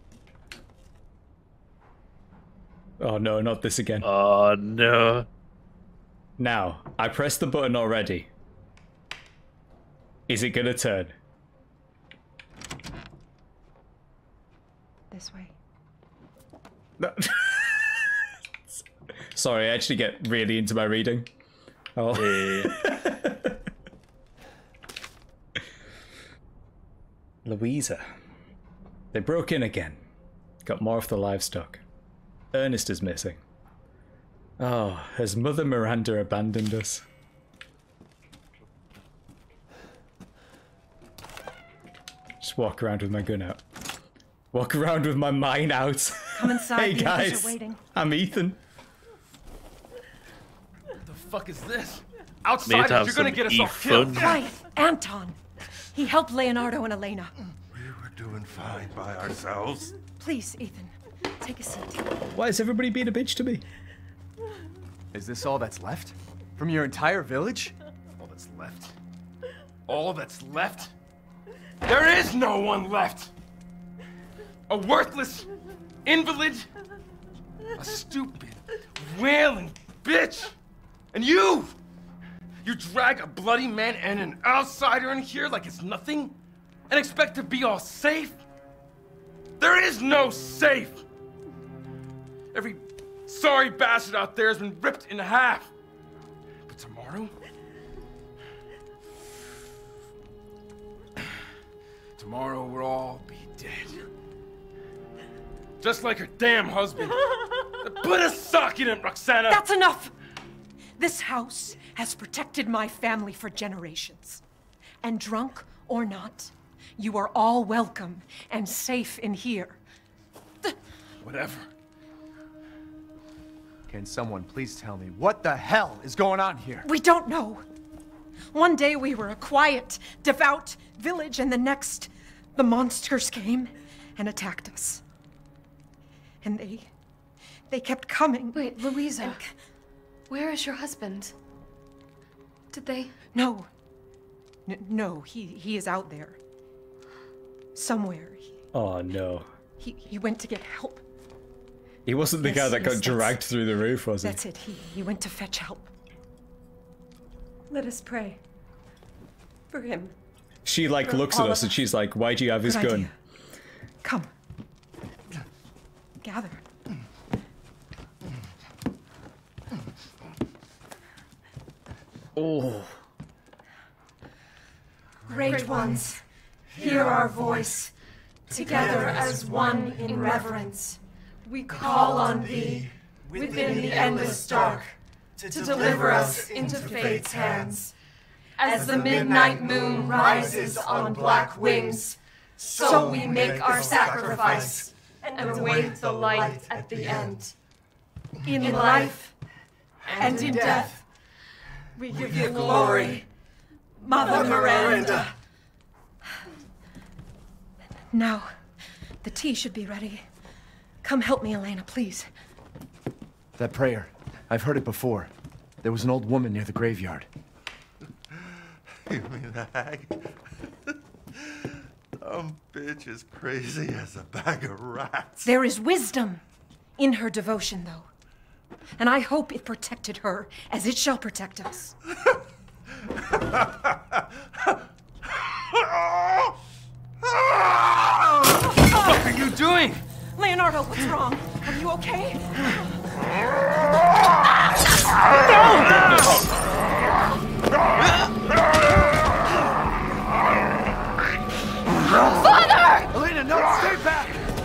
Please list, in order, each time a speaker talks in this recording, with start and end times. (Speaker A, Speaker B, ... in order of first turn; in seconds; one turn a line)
Speaker A: 3.0-4.1
Speaker B: 4.0-5.3
Speaker A: 6.4-8.3
Speaker A: 10.3-11.2
Speaker C: 15.1-15.6
Speaker A: 17.0-18.2
Speaker A: 19.3-21.3
Speaker A: 22.0-23.6
Speaker B: 22.1-22.8
Speaker A: 27.4-28.1
Speaker A: 29.1-30.0
Speaker A: 30.6-31.8
Speaker A: 32.5-33.4
Speaker A: 34.6-37.0
Speaker A: 42.4-43.6
Speaker A: 44.5-48.6
Speaker C: 46.3-47.8
Speaker D: 51.0-54.5
Speaker B: 52.6-54.4
Speaker C: 54.1-55.4
Speaker C: 55.9-57.3
Speaker E: 57.7-60.0
Speaker C: 60.2-62.1
Speaker A: 62.3-63.6
Speaker F: 65.1-67.8
Speaker D: 68.2-68.9
Speaker D: 69.9-70.9
Speaker D: 71.8-73.3
Speaker D: 74.7-75.5
Speaker D: 76.0-76.7
Speaker D: 77.8-80.5
Speaker D: 81.1-81.8
Speaker D: 82.6-86.3
Speaker D: 86.9-88.4
Speaker D: 89.6-91.0
Speaker D: 92.5-95.7
Speaker D: 96.7-97.3
Speaker D: 102.2-104.0
Speaker D: 105.8-107.2
Speaker D: 107.8-109.7
Speaker C: 109.5-110.1
Speaker C: 111.0-114.4
Speaker C: 115.0-119.8
Speaker D: 121.2-121.7
Speaker F: 123.9-126.9
Speaker C: 126.8-127.6
Speaker C: 128.5-135.0
Speaker C: 136.4-136.9
Speaker C: 137.7-139.5
Speaker G: 138.5-139.4
Speaker G: 140.3-141.3
Speaker G: 142.7-143.1
Speaker C: 143.3-143.7
Speaker C: 144.7-146.4
Speaker C: 147.8-148.6
Speaker A: 148.7-149.5
Speaker C: 149.8-151.0
Speaker A: 152.1-154.4
Speaker C: 152.4-153.4
Speaker C: 154.2-155.9
Speaker C: 157.7-158.4
Speaker C: 159.7-160.1
Speaker A: 160.7-163.1
Speaker C: 161.1-161.8
Speaker C: 162.6-163.1
Speaker C: 164.0-164.3
Speaker C: 166.2-166.6
Speaker A: 172.4-173.0
Speaker C: 175.3-176.2
Speaker H: 175.4-176.0
Speaker H: 176.8-177.9
Speaker C: 176.8-177.6
Speaker C: 178.5-180.7
Speaker H: 178.5-180.8
Speaker G: 180.0-180.4
Speaker H: 181.6-184.9
Speaker C: 181.8-182.1
Speaker H: 185.4-187.9
Speaker H: 188.6-197.5
Speaker C: 198.4-199.2
Speaker H: 198.6-199.3
Speaker H: 200.1-200.9
Speaker C: 200.2-201.0
Speaker C: 202.0-203.2
Speaker H: 202.4-203.2
Speaker C: 204.0-205.3
Speaker H: 204.2-205.2
Speaker C: 208.1-208.5
Speaker C: 209.2-210.2
Speaker C: 211.0-212.3
Speaker F: 213.6-215.3
Speaker F: 215.8-217.3
Speaker E: 219.1-220.3
Speaker E: 222.2-225.5
Speaker C: 225.4-226.4
Speaker C: 227.0-228.1
Speaker C: 229.0-232.0
Speaker D: 239.0-240.0
Speaker C: 240.4-242.8
Speaker A: 245.6-246.5
Speaker G: 252.4-253.1
Speaker F: 253.1-254.4